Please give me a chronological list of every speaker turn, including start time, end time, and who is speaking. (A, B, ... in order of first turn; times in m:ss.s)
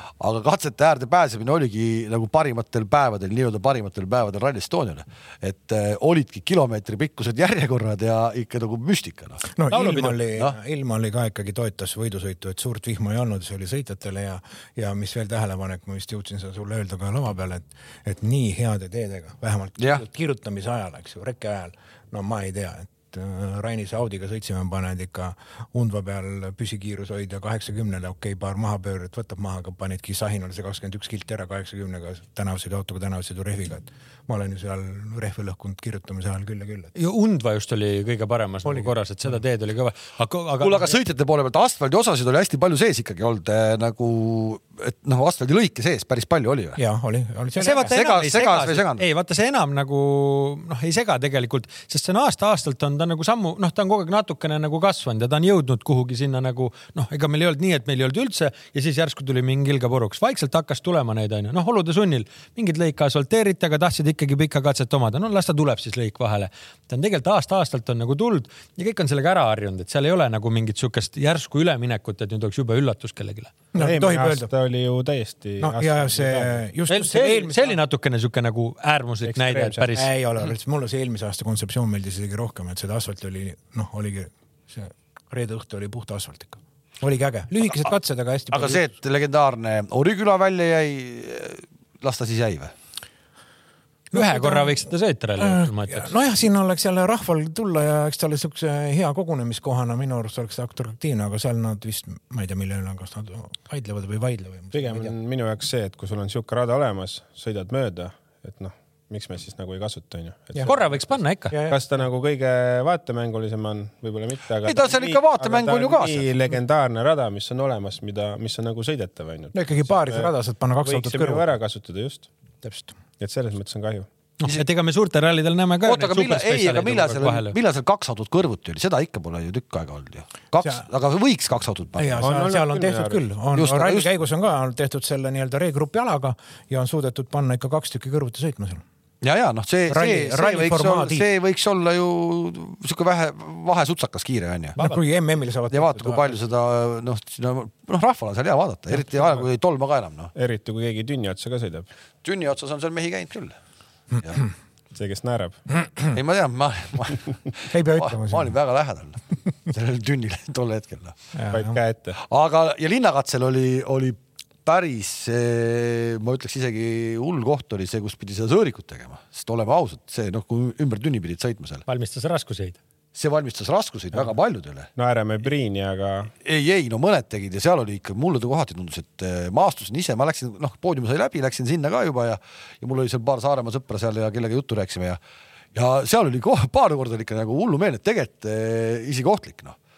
0:00.2-0:09.4 A
0:09.4-0:36.9 B
0:09.7-0:10.2 C
0:19.8-0:20.0 A
0:36.9-0:41.0 C
0:38.6-0:38.9 B
0:40.6-0:46.8 A
0:46.8-0:47.9 B
0:47.6-1:13.5 C
0:47.8-0:49.0 A
1:13.7-1:14.5 B
1:13.8-1:16.6 D
1:15.6-1:17.8 B
1:16.9-1:20.1 C
1:19.2-1:19.9 D
1:19.9-1:28.8 B
1:28.5-1:32.7 A
1:34.1-1:36.1 C
1:34.1-1:34.8 B
1:35.4-1:45.1 B
1:44.7-2:00.3 D
1:50.6-1:51.6 C
1:51.5-1:51.8 B
1:54.6-1:56.3 A
1:59.5-2:01.5 B
2:00.8-2:02.3 D
2:02.6-2:02.9 B
2:03.2-2:04.1 D
2:04.4-2:07.5 C
2:05.8-2:12.3 A
2:12.0-2:18.8 B
2:12.2-2:13.2 D
2:13.5-2:14.1 A
2:19.2-2:24.8 A
2:19.9-2:21.2 B
2:24.8-2:26.4 B
2:25.7-2:30.3 A
2:30.3-2:31.9 D
2:32.2-2:33.6 A
2:34.9-2:35.6 D
2:36.1-2:41.1 A
2:37.7-2:38.5 B
2:41.3-2:41.8 B
2:41.5-2:42.2 D
2:42.2-2:51.8 A
2:51.9-2:52.8 C
2:53.1-2:54.9 A
2:55.0-2:56.3 D
2:56.4-3:05.2 A
3:05.7-3:09.8 A